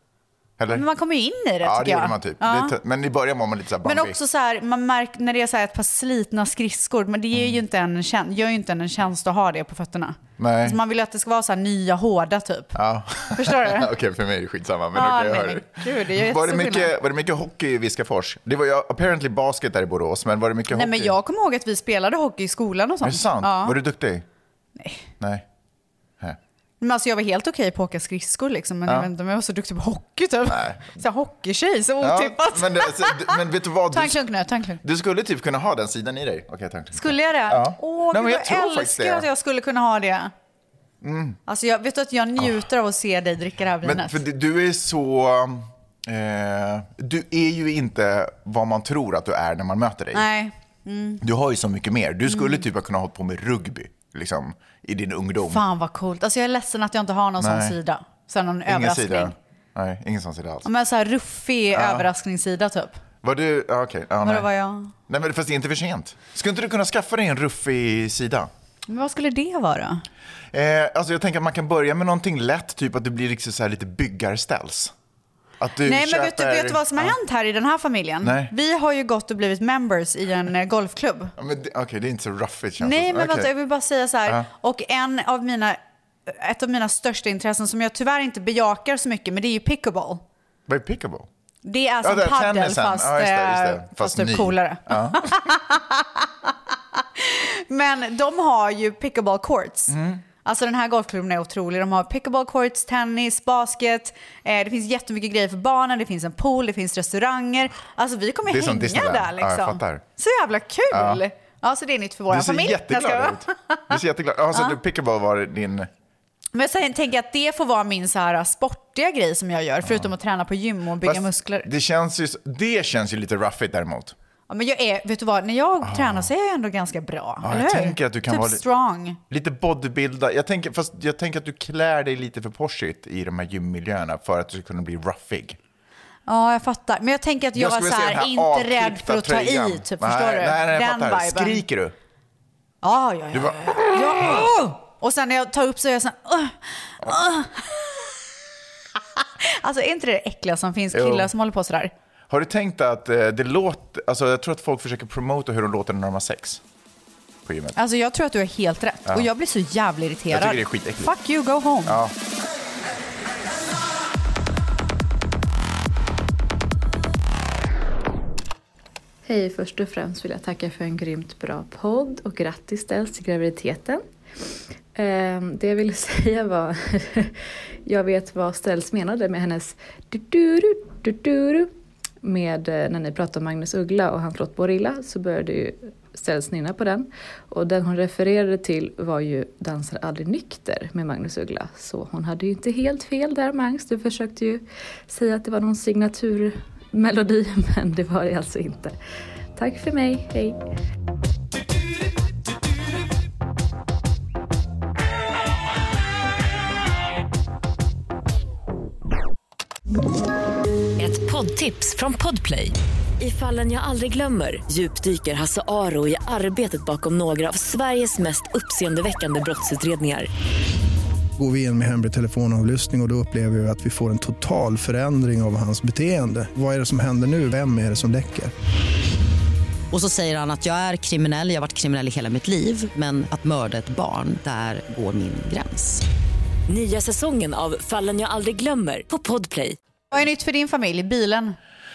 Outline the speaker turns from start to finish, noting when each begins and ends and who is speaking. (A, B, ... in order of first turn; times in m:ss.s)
0:00.6-0:00.8 A
0:00.7-0:02.8 B
0:01.6-0:04.1 A
0:03.8-0:12.8 B
0:10.4-0:10.8 A
0:12.7-0:21.1 A
0:13.3-0:13.9 B
0:14.9-0:16.9 B
0:20.7-0:23.8 B
0:23.0-0:24.2 A
0:24.8-0:25.1 B
0:25.2-0:25.4 A
0:26.8-0:33.4 B
0:30.5-0:30.9 A
0:32.0-0:34.2 A
0:33.9-0:34.8 B
0:34.8-0:39.2 A
0:36.9-0:40.3 B
0:41.0-0:41.4 A
0:41.5-0:44.2 B
0:43.8-0:50.2 A
0:50.1-0:51.2 B
0:51.2-0:55.6 A
0:52.3-0:52.6 B
0:55.4-0:59.3 B
0:57.4-0:57.7 A
0:58.7-1:00.7 A
1:00.6-1:03.0 B
1:01.7-1:02.1 A
1:03.2-1:04.5 A
1:04.2-1:04.9 B
1:05.1-1:08.5 A
1:08.9-1:10.0 B
1:10.5-1:14.9 A
1:15.6-1:17.1 A
1:15.8-1:21.3 B
1:18.2-1:18.5 A
1:21.4-1:23.5 A
1:22.8-1:30.2 B
1:30.7-1:31.3 A
1:31.6-1:54.0 B
1:32.0-1:35.5 A
1:39.9-1:40.2 A
1:48.5-1:50.0 A
1:50.9-1:51.2 A
1:52.3-1:55.9 A
1:56.5-2:01.7 B
1:59.8-2:00.1 A
2:01.0-2:04.1 A
2:04.5-2:09.2 B
2:05.8-2:06.3 A
2:07.4-2:08.6 A
2:09.3-2:15.6 A
2:16.3-2:21.6 B
2:17.5-2:21.9 A
2:22.8-2:28.2 B
2:23.3-2:24.4 A
2:28.9-2:31.9 B
2:30.9-2:31.3 A
2:32.3-2:36.6 A
2:37.4-2:37.8 A
2:37.7-2:42.0 B
2:40.3-2:41.1 A
2:41.8-2:42.1 A
2:49.2-2:54.0 C
2:54.9-3:19.0 C
3:19.6-3:20.6 C
3:31.0-3:40.3 D
3:41.4-3:48.5 E
3:49.9-3:56.0 F
3:56.7-3:59.8 D
4:00.1-4:01.6 B